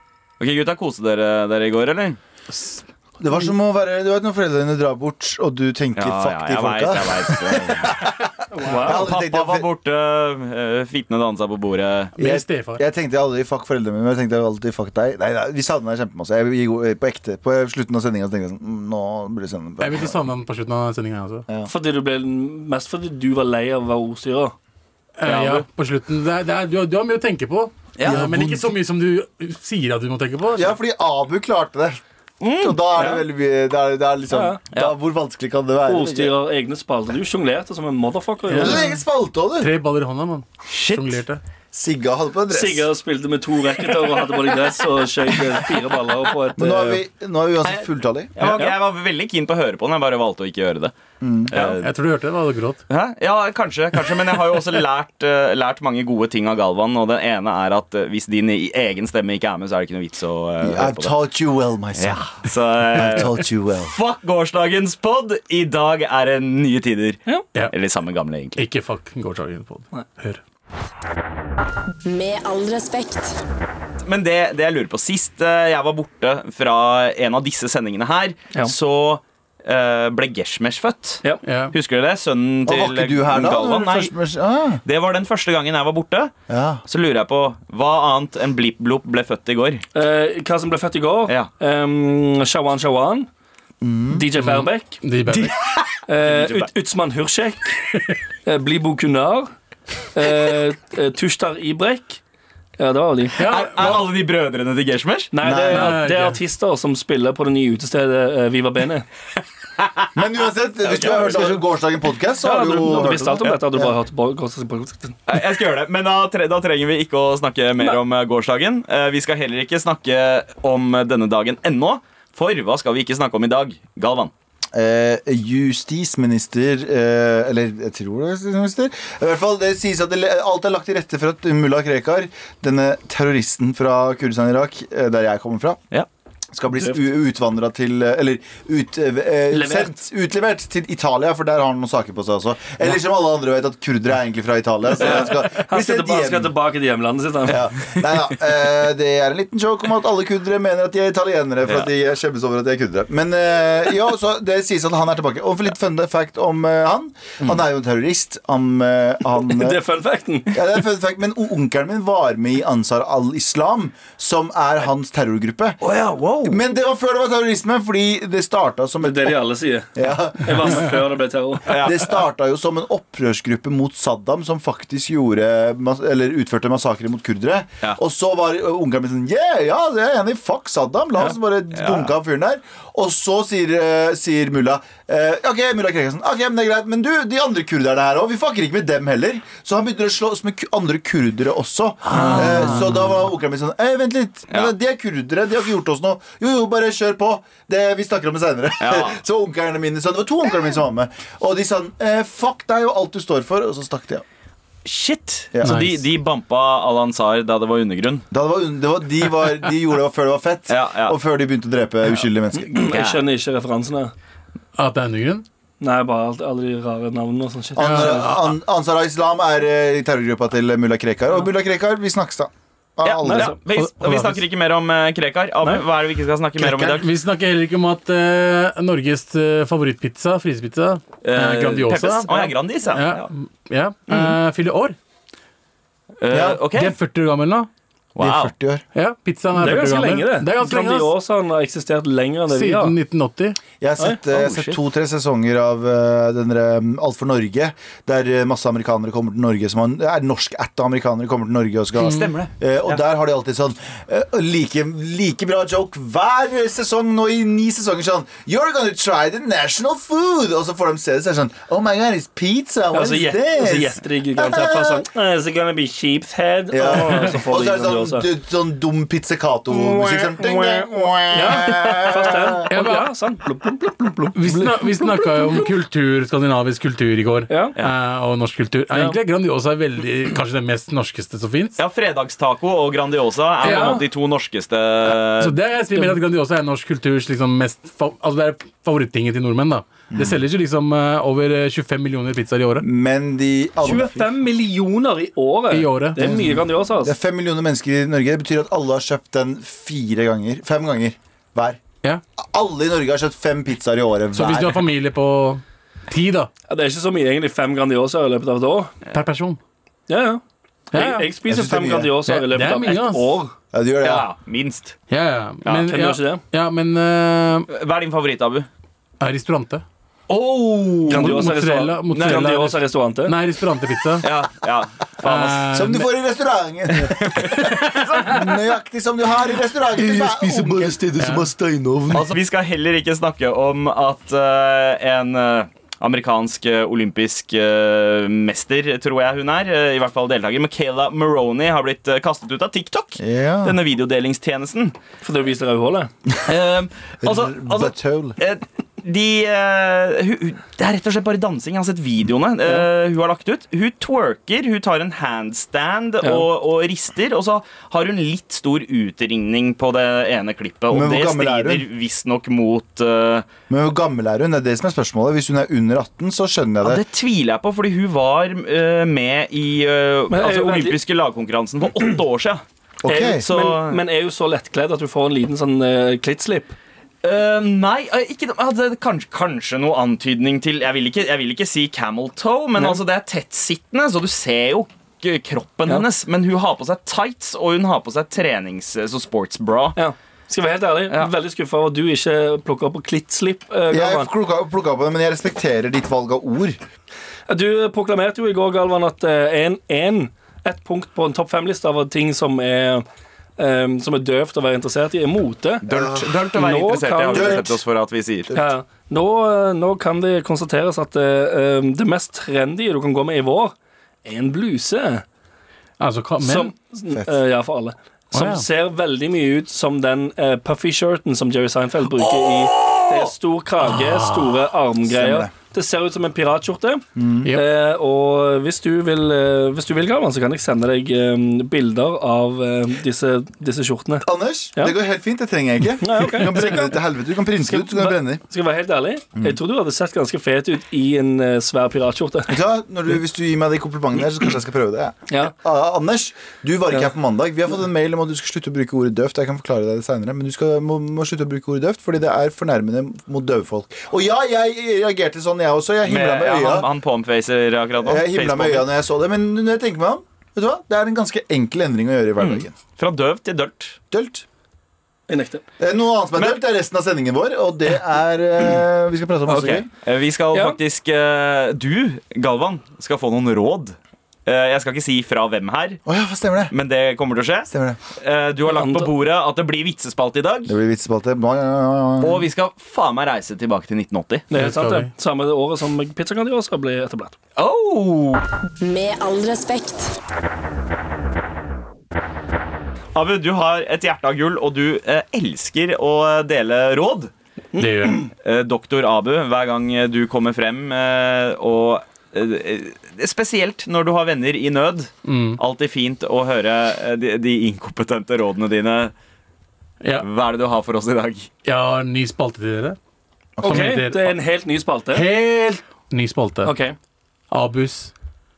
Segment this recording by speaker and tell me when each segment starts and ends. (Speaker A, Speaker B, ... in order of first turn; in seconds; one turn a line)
Speaker A: 0.4-2.2
Speaker B: 3.2-9.7
Speaker A: 6.0-8.0
Speaker C: 8.5-9.1
Speaker A: 8.7-12.1
Speaker D: 12.2-12.8
Speaker B: 12.2-20.3
Speaker D: 19.8-21.5
Speaker C: 21.6-24.6
Speaker D: 25.2-30.8
Speaker A: 25.3-25.6
Speaker A: 28.0-28.3
Speaker B: 28.0-28.7
Speaker B: 30.5-32.0
Speaker A: 32.4-33.1
Speaker B: 32.6-36.4
Speaker C: 34.3-34.6
Speaker C: 35.9-38.8
Speaker B: 38.5-39.7
Speaker D: 39.6-41.4
Speaker A: 40.7-41.2
Speaker B: 41.7-42.9
Speaker C: 42.5-47.0
Speaker B: 46.6-48.5
Speaker A: 48.4-50.9
Speaker C: 48.4-48.8
Speaker B: 51.2-51.5
Speaker A: 51.5-51.9
Speaker D: 51.6-52.8
Speaker A: 52.9-61.2
Speaker B: 60.6-62.4
Speaker A: 62.0-68.6
Speaker B: 62.9-64.0
Speaker D: 68.6-70.4
Speaker E: 72.0-73.4
Speaker A: 74.0-84.1
Speaker D: 81.4-81.7
Speaker B: 82.7-84.8
Speaker A: 84.8-86.3
Speaker B: 86.5-86.8
Speaker A: 86.9-89.8
Speaker C: 90.0-93.3
Speaker B: 93.8-94.3
Speaker C: 94.1-95.0
Speaker D: 94.3-95.5
Speaker A: 95.3-96.7
Speaker C: 96.1-97.8
Speaker C: 98.5-99.5
Speaker C: 100.2-102.2
Speaker C: 102.8-103.4
Speaker D: 103.4-104.1
Speaker A: 103.4-105.3
Speaker C: 105.3-109.1
Speaker B: 105.4-106.0
Speaker D: 105.7-106.4
Speaker A: 109.8-110.1
Speaker B: 110.2-114.0
Speaker A: 110.8-111.5
Speaker C: 112.4-115.2
Speaker A: 115.3-124.3
Speaker B: 124.7-135.8
Speaker B: 136.5-146.5
Speaker C: 136.8-137.1
Speaker C: 139.5-140.0
Speaker A: 145.0-145.3
Speaker C: 145.0-147.6
Speaker B: 147.5-159.8
Speaker C: 159.4-160.7
Speaker B: 160.5-165.8
Speaker A: 165.8-166.6
Speaker B: 166.4-169.4
Speaker C: 169.0-169.9
Speaker B: 169.9-171.0
Speaker C: 170.4-171.9
Speaker A: 171.7-172.0
Speaker B: 171.8-204.2
Speaker A: 181.2-182.1
Speaker A: 192.1-192.9
Speaker D: 192.1-192.8
Speaker A: 198.8-199.2
Speaker A: 204.8-208.3
Speaker B: 205.5-205.8
Speaker D: 205.6-206.0
Speaker B: 208.3-213.0
Speaker A: 210.7-211.2
Speaker C: 212.6-214.1
Speaker A: 212.8-213.2
Speaker D: 214.8-215.4
Speaker C: 215.8-218.4
Speaker B: 217.8-223.5
Speaker D: 217.8-218.5
Speaker A: 223.0-227.1
Speaker C: 223.2-223.6
Speaker D: 223.7-224.4
Speaker D: 226.6-235.0
Speaker A: 231.2-233.3
Speaker A: 234.1-234.3
Speaker A: 236.2-237.0
Speaker B: 236.3-236.7
Speaker D: 236.7-237.7
Speaker A: 238.2-238.5
Speaker B: 238.2-238.8
Speaker D: 238.9-241.1
Speaker C: 239.5-243.0
Speaker D: 242.5-243.6
Speaker B: 243.8-265.1
Speaker A: 244.3-244.8
Speaker A: 252.0-253.0
Speaker C: 262.9-268.3
Speaker B: 266.7-272.7
Speaker C: 271.3-275.7
Speaker D: 272.7-273.1
Speaker D: 274.4-281.8
Speaker C: 277.5-277.8
Speaker C: 278.9-279.2
Speaker A: 281.8-285.6
Speaker C: 283.6-284.0
Speaker D: 283.6-284.0
Speaker D: 285.1-292.9
Speaker B: 290.1-290.4
Speaker B: 292.8-294.3
Speaker C: 293.8-297.1
Speaker D: 295.7-296.2
Speaker B: 296.2-301.8
Speaker B: 302.4-304.8
Speaker D: 304.4-306.5
Speaker C: 306.7-308.9
Speaker D: 309.1-309.6
Speaker C: 310.1-313.5
Speaker D: 310.9-311.3
Speaker B: 311.5-312.2
Speaker D: 312.2-313.4
Speaker B: 313.7-314.3
Speaker A: 314.0-315.0
Speaker D: 315.1-317.7
Speaker C: 315.9-316.4
Speaker A: 317.7-318.7
Speaker D: 319.2-319.8
Speaker A: 320.3-321.4
Speaker C: 321.1-323.4
Speaker D: 321.1-324.3
Speaker A: 322.1-322.5
Speaker A: 324.2-325.6
Speaker D: 325.2-326.1
Speaker B: 325.7-331.0
Speaker D: 327.5-328.4
Speaker F: 329.9-332.3
Speaker D: 331.2-331.4
Speaker A: 332.1-345.0
Speaker B: 343.2-343.8
Speaker C: 345.2-346.1
Speaker A: 346.4-363.5
Speaker B: 347.2-348.4
Speaker C: 356.2-356.5
Speaker B: 360.9-361.9
Speaker B: 363.7-367.0
Speaker A: 366.8-374.0
Speaker C: 370.3-371.0
Speaker B: 373.0-373.4
Speaker C: 373.1-376.7
Speaker A: 377.2-390.0
Speaker C: 389.9-394.3
Speaker B: 393.9-396.8
Speaker C: 397.5-403.1
Speaker C: 403.6-405.9
Speaker B: 405.9-406.3
Speaker A: 405.9-408.5
Speaker C: 406.5-407.7
Speaker B: 407.3-407.8
Speaker C: 408.5-415.2
Speaker D: 416.0-416.7
Speaker C: 416.4-435.0
Speaker D: 418.3-418.7
Speaker A: 422.8-423.3
Speaker D: 423.8-424.7
Speaker B: 425.1-425.5
Speaker B: 427.1-427.5
Speaker B: 434.2-438.4
Speaker C: 436.0-437.0
Speaker C: 437.6-442.6
Speaker B: 442.5-456.9
Speaker A: 456.1-458.9
Speaker B: 458.0-462.8
Speaker A: 462.4-464.0
Speaker B: 464.1-464.4
Speaker C: 465.3-465.6
Speaker B: 465.8-469.9
Speaker A: 469.5-476.0
Speaker C: 470.5-470.8
Speaker B: 476.1-476.7
Speaker A: 476.7-480.8
Speaker B: 477.7-478.0
Speaker C: 478.7-479.1
Speaker B: 480.7-482.5
Speaker A: 482.2-484.5
Speaker C: 484.5-487.4
Speaker D: 484.5-485.1
Speaker A: 487.6-488.4
Speaker E: 488.8-490.1
Speaker A: 493.1-497.3
Speaker C: 497.7-498.3
Speaker D: 497.8-498.3
Speaker A: 498.4-509.1
Speaker D: 505.2-505.6
Speaker D: 510.0-510.3
Speaker A: 510.2-511.5
Speaker D: 511.6-513.0
Speaker B: 513.6-514.0
Speaker D: 513.6-514.4
Speaker C: 513.6-515.3
Speaker D: 515.1-516.8
Speaker C: 516.6-517.0
Speaker D: 517.5-518.1